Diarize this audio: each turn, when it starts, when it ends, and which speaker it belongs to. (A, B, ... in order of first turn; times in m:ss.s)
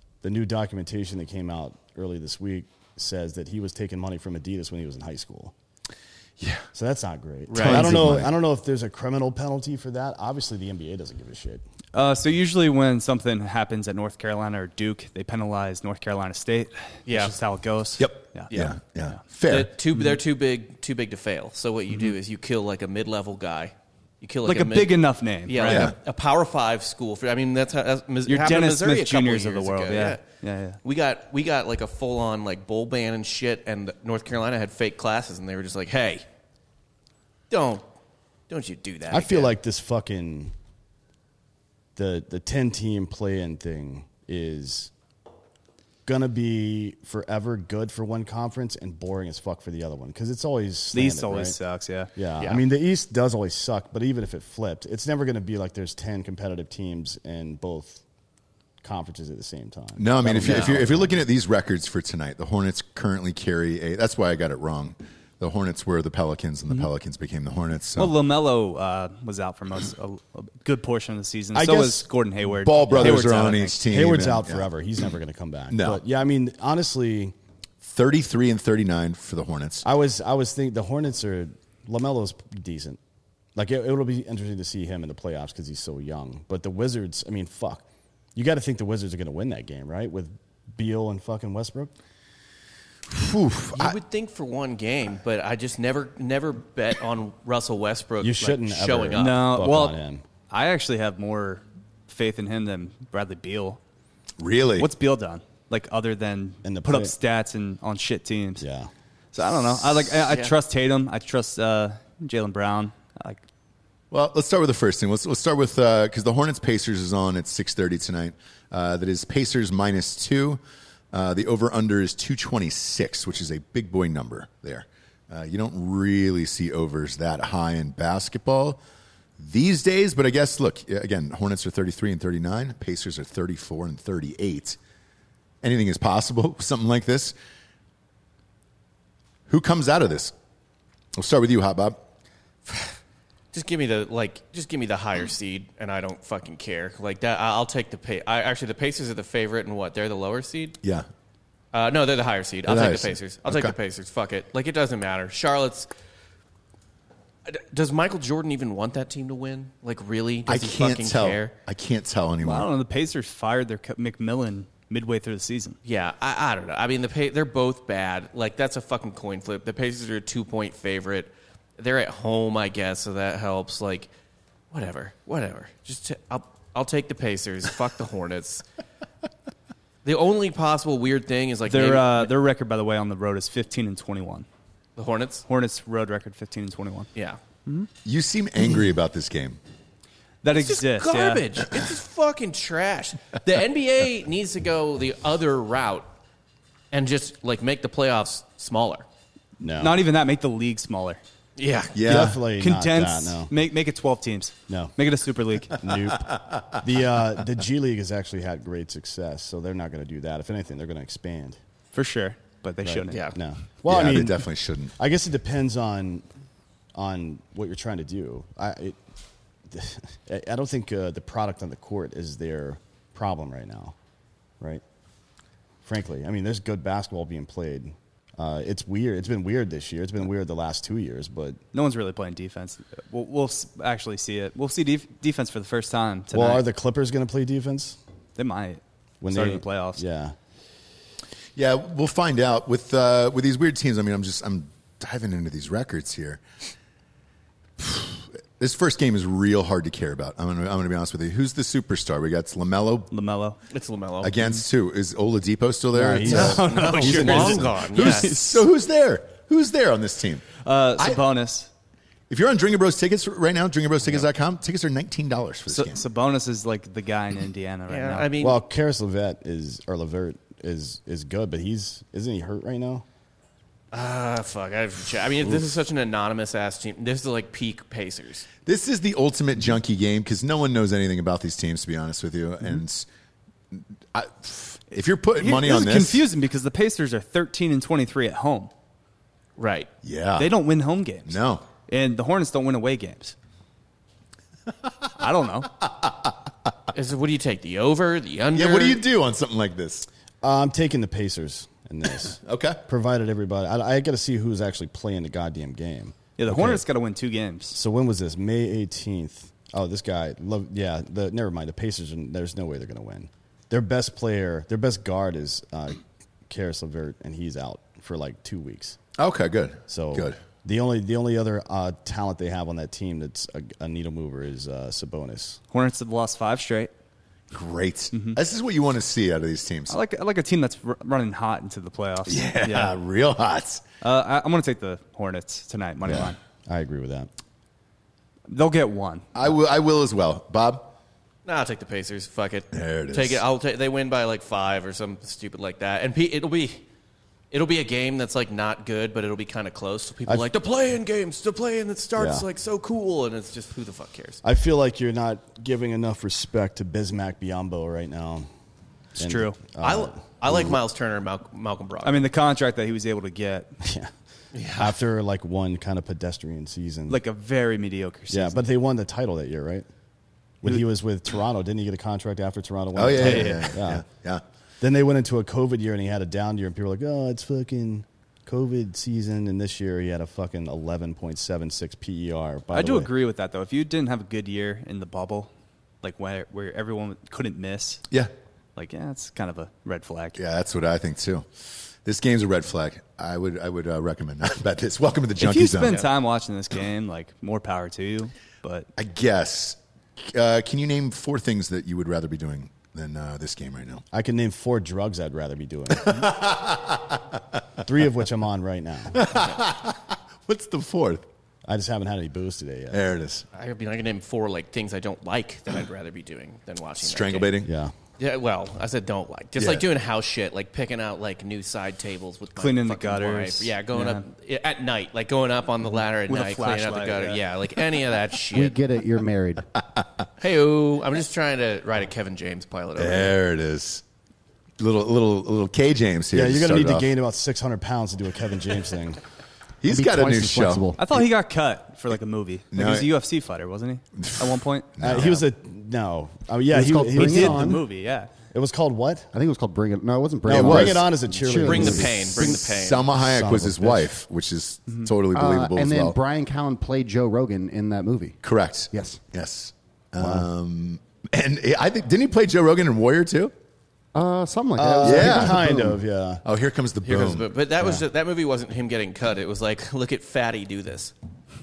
0:00.2-0:05.5 A
0:06.4-0:06.7 B
0:06.7-0:11.6 A
0:07.5-0:08.1 C
0:07.5-0:08.4 B
0:11.9-0:18.5 D
0:17.1-0:17.4 C
0:18.0-0:19.7 B
0:19.5-0:30.2 C
0:24.5-0:25.9 D
0:25.7-0:26.0 B
0:28.3-0:30.8 D
0:30.8-0:36.2 C
0:37.5-0:37.8 C
0:38.5-0:39.5 C
0:39.1-0:40.5 A
0:42.0-0:44.9 A
0:46.1-0:51.6 A
0:50.9-0:52.1 D
0:52.2-0:58.0 A
0:52.4-0:52.6 C
0:58.8-1:01.2 A
1:00.0-1:08.1 B
1:08.0-1:13.8 D
1:11.6-1:12.1 A
1:12.5-1:14.7 B
1:12.9-1:13.2 A
1:13.9-1:17.3 A
1:15.7-1:16.0 B
1:17.8-1:19.8 B
1:19.8-1:23.0 A
1:23.6-1:31.9 A
1:33.1-1:34.0 B
1:33.7-1:39.4 C
1:38.2-1:40.2 A
1:39.2-1:40.0 D
1:40.5-1:43.8 D
1:44.4-1:44.9 B
1:44.8-1:48.6 D
1:46.6-1:47.2 A
1:48.6-1:48.9 A
1:49.3-1:53.4 D
1:50.3-1:50.5 C
1:54.1-2:00.6 B
2:01.1-2:08.8 B
2:09.4-2:14.8 B
2:15.6-2:17.4 B
2:19.5-2:20.3 B
2:21.2-2:22.0 B
2:22.7-2:22.9 C
2:23.5-2:30.8 C
2:30.8-2:31.1 B
2:31.7-2:35.9 C
2:32.7-2:33.7 B
2:37.5-2:41.5 C
2:40.5-2:42.7 B
2:42.4-2:45.8 D
2:45.8-2:54.1 C
2:54.7-2:58.6 C
3:00.0-3:02.3 C
3:01.7-3:04.5 D
3:05.0-3:05.4 C
3:05.5-3:07.1 D
3:08.0-3:09.6 B
3:10.4-3:11.4 D
3:10.5-3:16.1 C
3:16.9-3:19.0 C
3:19.6-3:20.0 A
3:19.8-3:21.2 D
3:21.6-3:22.0 C
3:21.9-3:22.4 B
3:22.0-3:23.5 A
3:22.6-3:25.8 D
3:24.7-3:24.9 A
3:25.7-3:31.6 A
3:26.3-3:26.8 B
3:31.9-3:33.3 D
3:32.8-3:36.3 A
3:33.1-3:33.4 C
3:33.9-3:35.0 B
3:37.0-3:39.0 A
3:39.7-3:44.0 A
3:45.8-3:51.6 A
3:51.7-3:56.6 D
3:56.3-3:58.0 A
3:58.4-3:58.8 D
3:59.2-4:00.4 A
3:59.3-4:00.0 D
4:01.6-4:06.4 B
4:07.8-4:13.1 B
4:13.1-4:13.6 D
4:13.7-4:14.4 C
4:14.2-4:20.5 B
4:15.9-4:17.7 A
4:16.2-4:18.6 D
4:16.6-4:18.5 C
4:20.6-4:21.7 D
4:21.0-4:21.2 B
4:22.3-4:26.0 B
4:25.7-4:28.3 D
4:27.9-4:28.6 C
4:28.4-4:33.0 A
4:33.9-4:38.5 C
4:38.6-4:43.1 B
4:43.7-4:46.2 B
4:45.4-4:48.7 D
4:49.6-4:49.9 C
4:50.0-4:50.6 B
4:50.4-4:53.4 D
4:51.3-4:51.6 B
4:55.2-4:55.7 D
4:55.8-4:56.4 B
4:56.9-4:59.0 C
4:58.5-5:00.1 B
5:00.4-5:06.8 A
5:02.3-5:02.8 B
5:06.4-5:07.8 D
5:07.7-5:19.0 A
5:19.2-5:20.4 B
5:19.9-5:25.6 A
5:25.7-5:26.9 D
5:27.5-5:30.0 B
5:28.1-5:28.4 D
5:29.9-5:32.9 D
5:32.3-5:33.8 B
5:34.0-5:36.4 D
5:36.2-5:37.3 A
5:38.5-5:39.3 D
5:39.4-5:40.9 B
5:41.4-5:46.8 C
5:42.7-5:43.4 B
5:47.5-5:54.4 C
5:52.2-5:52.5 A
5:54.4-5:58.5 A
5:59.2-6:00.8 A
5:59.2-5:59.6 D
5:59.8-6:02.2 C
6:02.0-6:03.8 D
6:03.8-6:04.1 A
6:04.5-6:05.0 C
6:04.8-6:07.2 A
6:07.1-6:08.6 D
6:08.3-6:09.9 A
6:10.6-6:14.0 A
6:12.9-6:14.4 B
6:13.1-6:13.7 D
6:14.8-6:23.1 A
6:22.7-6:25.5 D
6:26.0-6:28.0 D
6:28.8-6:30.4 D
6:30.4-6:36.0 B
6:35.4-6:38.9 D
6:39.0-6:44.0 B
6:44.1-6:46.3 A
6:45.9-6:47.4 B
6:47.8-6:49.2 A
6:49.1-6:51.2 B
6:51.7-6:53.0 A
6:52.9-6:53.4 B
6:53.5-6:57.6 C
6:57.0-6:57.7 B
6:57.6-6:57.9 A
6:58.2-7:08.8 C
6:59.6-6:59.8 B
7:02.6-7:04.3 D
7:06.3-7:07.4 D
7:08.5-7:09.7 E
7:10.4-7:13.4 C
7:13.0-7:14.0 B
7:14.8-7:17.1 B
7:16.3-7:19.2 A
7:19.8-7:21.0 B
7:19.9-7:21.0 E
7:21.0-7:25.4 D
7:22.7-7:23.1 B
7:24.2-7:25.4 B
7:25.0-7:27.8 A
7:26.7-7:27.8 E
7:27.2-7:28.3 D
7:28.5-7:29.3 A
7:29.3-7:32.6 E
7:30.5-7:34.1 A
7:30.5-7:31.0 B
7:31.6-7:33.1 C
7:32.4-7:36.2 B
7:35.3-7:38.4 E
7:38.4-7:43.5 B
7:38.9-7:39.2 E
7:44.2-7:46.0 E
7:44.8-7:46.4 A
7:45.0-7:45.7 B
7:46.4-7:47.5 B
7:47.0-7:51.1 C